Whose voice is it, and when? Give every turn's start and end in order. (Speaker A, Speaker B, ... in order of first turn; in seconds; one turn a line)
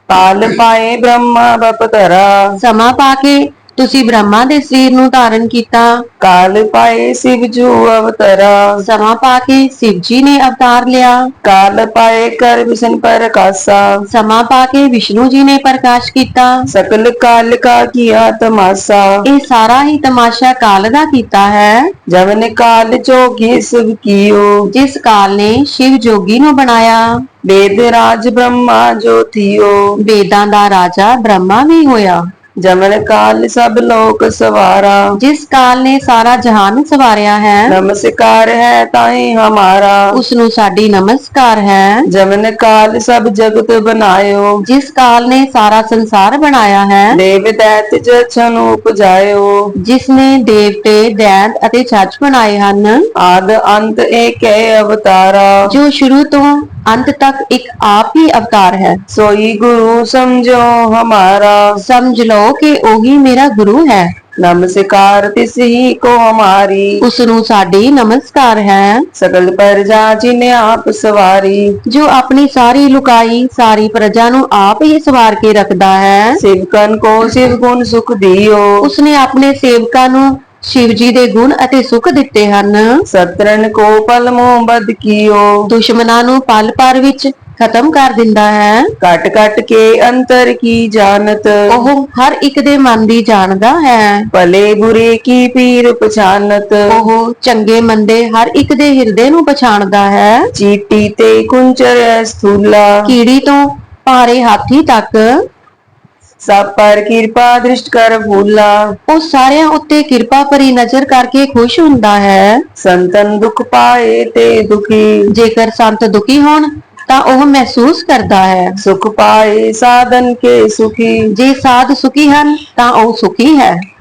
Speaker A: 0.1-2.4
Speaker B: 2.6-6.0
Speaker A: 6.2-8.8
Speaker B: 8.8-11.3
Speaker A: 11.4-14.0
Speaker B: 14.1-16.7
Speaker A: 16.7-19.2
Speaker B: 19.2-21.9
Speaker A: 22.1-24.7
Speaker B: 24.7-27.2
Speaker A: 27.4-29.9
Speaker B: 30.0-32.3
Speaker A: 32.6-35.0
Speaker B: 35.2-37.8
Speaker A: 37.7-40.1
Speaker B: 40.1-42.1
Speaker A: 42.1-44.6
Speaker B: 44.6-47.2
Speaker A: 47.1-49.7
Speaker B: 49.8-53.0
Speaker A: 53.1-55.7
Speaker B: 55.7-59.0
Speaker A: 59.1-61.8
Speaker B: 61.8-64.1
Speaker A: 64.4-67.0
Speaker B: 67.0-69.1
Speaker A: 69.2-71.8
Speaker B: 71.9-76.4
Speaker A: 76.4-78.9
Speaker B: 78.8-83.0
Speaker A: 83.1-85.6
Speaker B: 85.7-88.9
Speaker A: 89.0-91.6
Speaker B: 91.7-94.3
Speaker A: 94.3-96.8
Speaker B: 96.9-100.5
Speaker A: 100.5-103.2
Speaker B: 103.0-105.4
Speaker A: 106.4-109.0
Speaker B: 109.1-112.7
Speaker A: 112.8-115.3
Speaker B: 115.3-118.8
Speaker A: 118.8-121.3
Speaker B: 121.3-123.8